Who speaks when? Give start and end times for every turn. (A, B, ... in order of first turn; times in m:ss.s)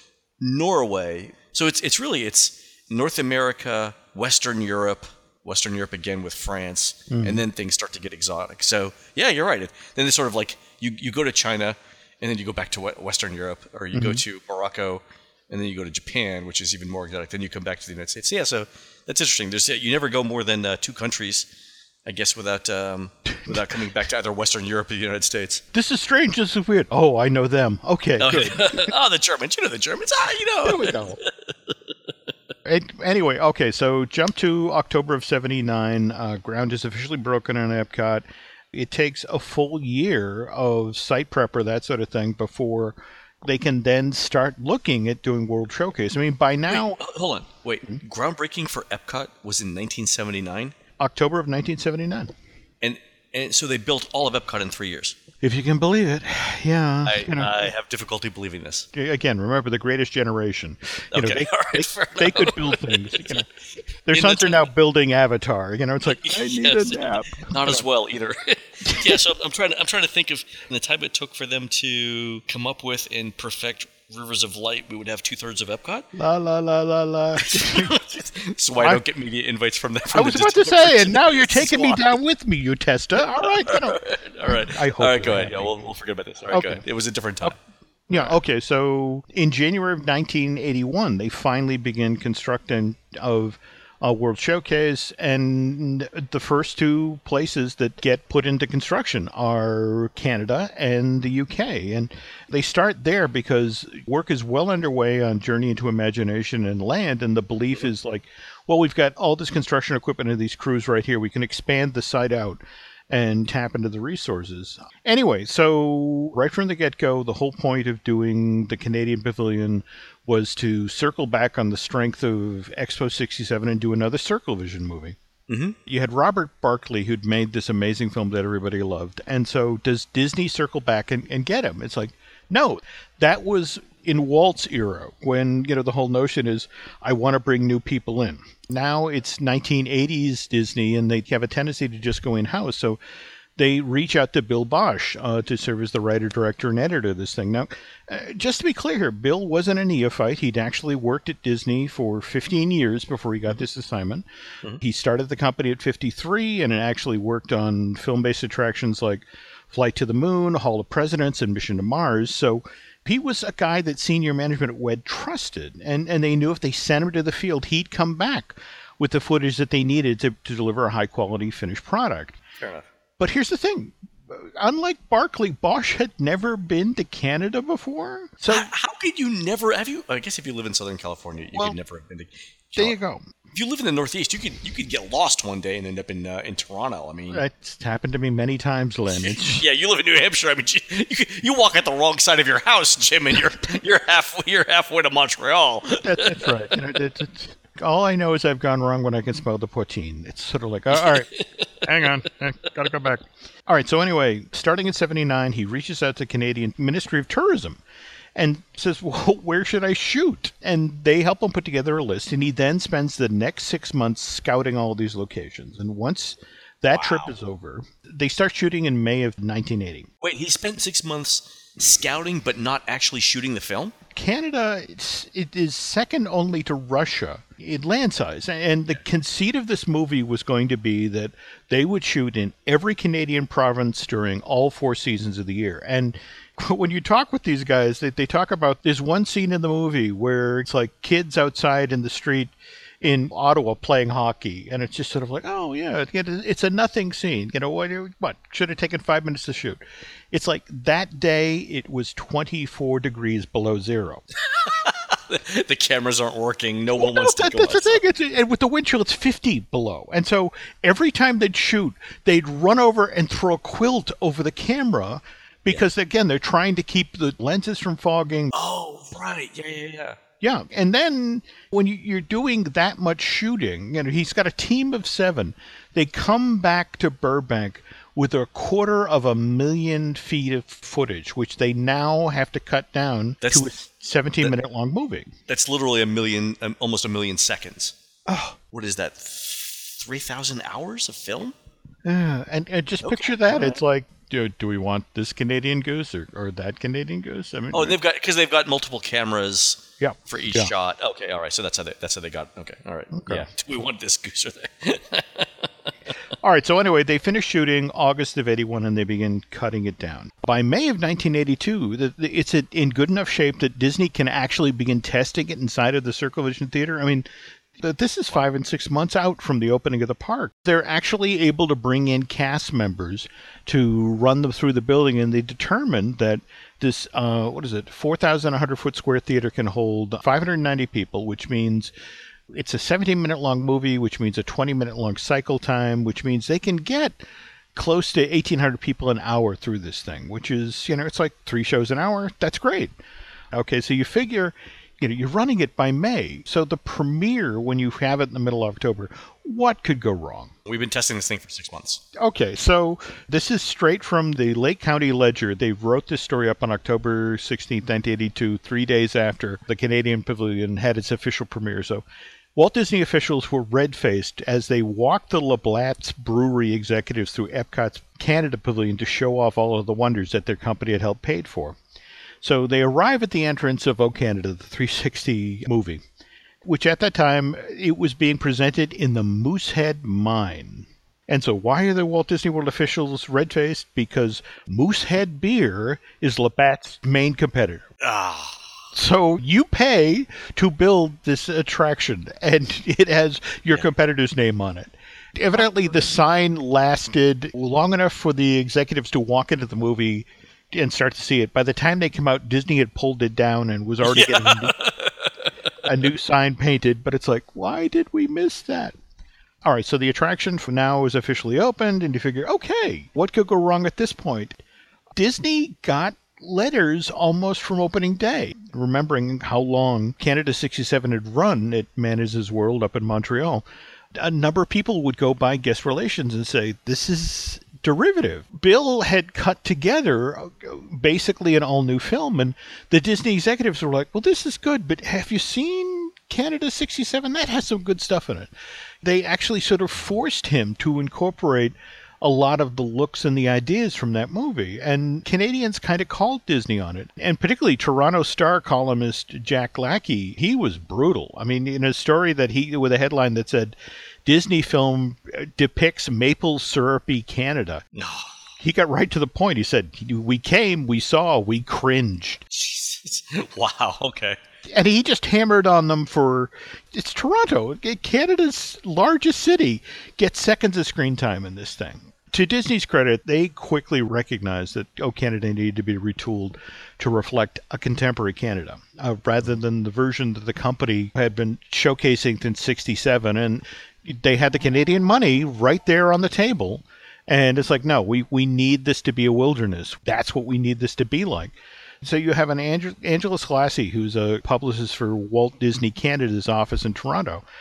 0:00.4-0:21.5 A
0:07.1-0:07.4 B
0:13.9-0:14.2 B
0:22.0-0:25.6 A
0:25.7-0:28.9 B
0:28.2-0:31.7 A
0:30.6-0:31.2 B
0:32.6-0:47.0 B
0:46.7-0:50.7 A
0:51.0-0:52.3 B
0:52.8-0:55.2 A
0:55.4-0:57.5 B
0:57.0-0:58.9 A
0:58.9-1:03.4 B
1:01.1-1:03.4 A
1:04.1-1:07.8 B
1:04.1-1:04.7 A
1:06.1-1:16.1 A
1:08.9-1:09.2 B
1:16.1-1:18.0 B
1:17.4-1:22.1 A
1:20.1-1:25.8 B
1:23.3-1:27.6 A
1:26.5-1:26.8 B
1:28.1-2:05.2 B
2:05.5-2:05.8 A
2:05.8-2:23.0 B
2:23.6-2:34.2 B
2:34.8-2:52.4 B
2:52.6-2:52.8 A
2:53.2-2:58.7 B
2:58.5-3:03.0 A
3:02.8-3:03.2 B
3:03.5-3:07.4 A
3:07.3-3:09.6 B
3:09.1-3:16.7 A
3:16.0-3:21.3 B
3:20.9-3:22.1 A
3:21.8-3:27.8 B
3:28.3-3:40.1 B
3:36.9-3:37.3 A
3:40.2-3:43.9 A
3:44.1-4:14.2 B
4:14.6-4:18.0 A
4:17.0-4:28.5 B
4:28.5-4:30.2 A
4:30.4-4:45.3 B
4:43.4-4:43.7 A
4:45.5-4:47.9 A
4:48.3-4:48.6 B
4:48.7-4:51.5 A
4:52.0-4:58.0 B
4:53.0-4:53.8 A
4:57.7-5:05.7 A
5:00.0-5:00.7 B
5:03.1-5:03.5 B
5:06.4-5:17.2 B
5:17.8-5:31.9 B
5:32.5-5:37.2 B
5:37.7-5:42.9 B
5:43.5-5:50.5 B
5:50.6-5:52.0 A
5:52.1-6:02.0 B
6:02.5-6:11.8 B
6:12.4-6:16.0 B
6:16.6-6:27.9 B
6:28.0-6:28.7 A
6:28.9-6:44.8 B
6:44.1-6:45.5 A
6:45.8-6:48.9 B
6:49.6-6:54.6 B
6:55.1-7:18.5 B
7:19.0-7:37.8 B
7:37.9-7:38.4 A
7:38.6-7:42.4 B
7:42.5-7:44.4 A
7:44.6-8:17.4 B